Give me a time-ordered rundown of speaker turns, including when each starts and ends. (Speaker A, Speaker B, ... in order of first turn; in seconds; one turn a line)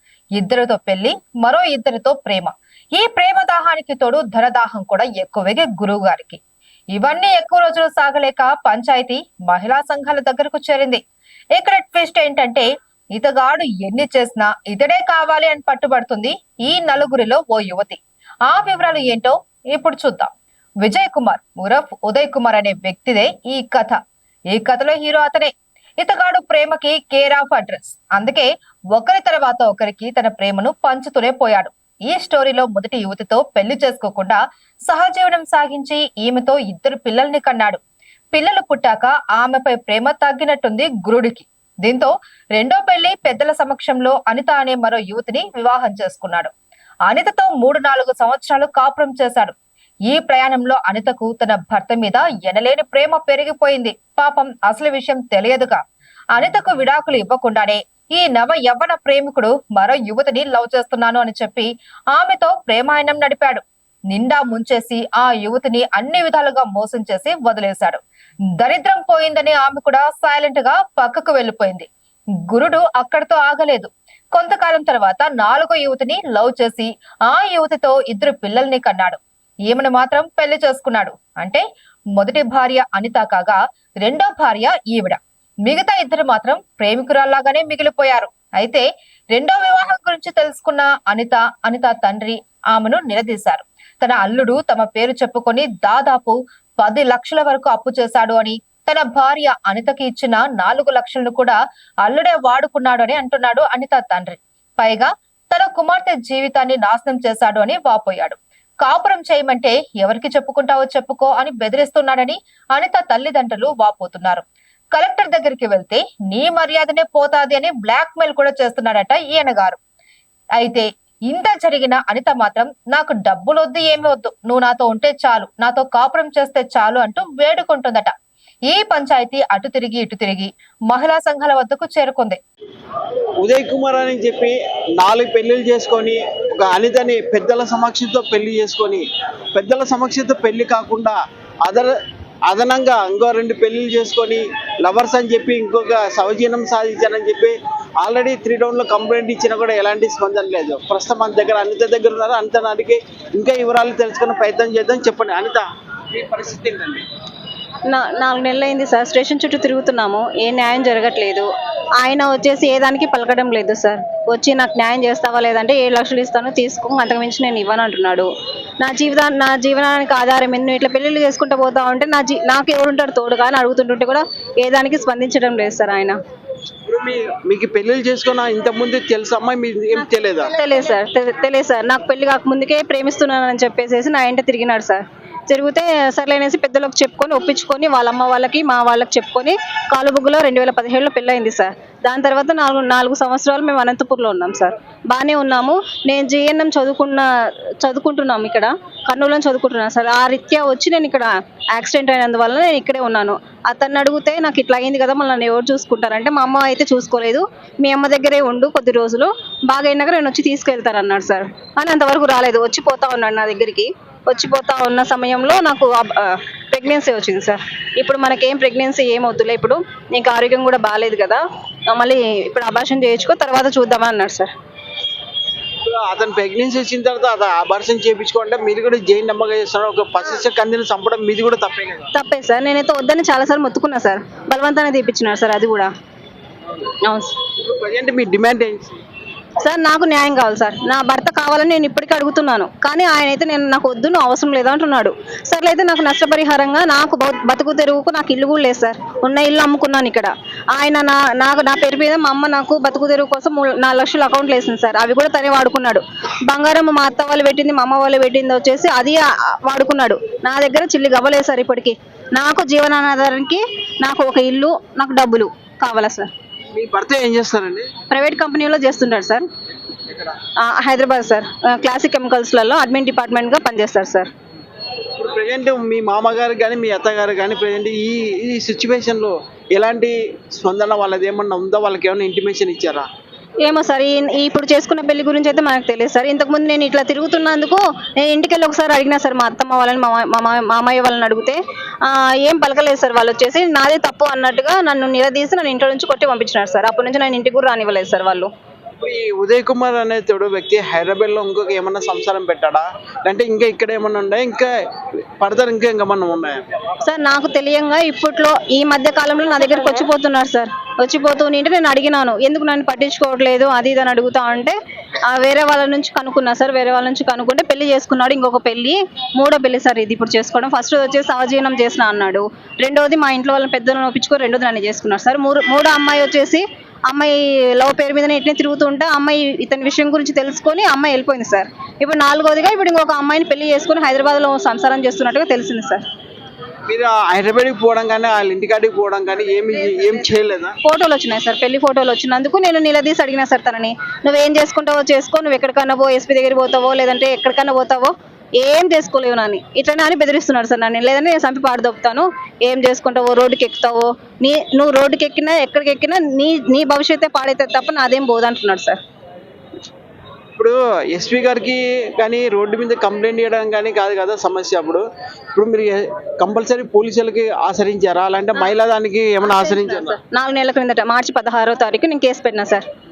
Speaker A: 0.3-6.4
Speaker A: 6.9-11.0
Speaker A: 11.5-20.3
Speaker A: 20.8-24.0
Speaker A: 24.5-37.8
Speaker A: 38.3-46.5
Speaker A: 47.1-49.5
Speaker A: 50.1-55.8
Speaker A: 56.3-68.0
Speaker A: 68.6-71.9
Speaker A: 72.5-81.6
Speaker A: 82.2-119.8
Speaker A: 120.6-128.1
Speaker A: 128.7-132.4
Speaker B: 133.4-141.9
Speaker B: 142.5-157.0
Speaker C: 157.9-161.5
Speaker C: 162.0-168.3
Speaker C: 168.8-176.2
Speaker B: 176.9-180.5
Speaker C: 180.5-197.2
Speaker C: 197.8-224.5
Speaker B: 225.8-232.1
Speaker C: 232.1-235.9
Speaker C: 237.0-237.3
Speaker B: 237.6-239.0
Speaker C: 239.6-266.3
Speaker B: 266.7-267.9
Speaker C: 268.1-269.4
Speaker B: 270.1-270.4
Speaker C: 270.6-274.3
Speaker B: 275.2-283.1
Speaker C: 283.6-298.5
Speaker B: 299.0-304.7
Speaker B: 305.4-306.6
Speaker C: 307.0-314.7
Speaker C: 315.3-336.0
Speaker B: 336.9-340.8
Speaker C: 340.8-359.0
Speaker B: 360.6-370.2
Speaker C: 369.4-372.9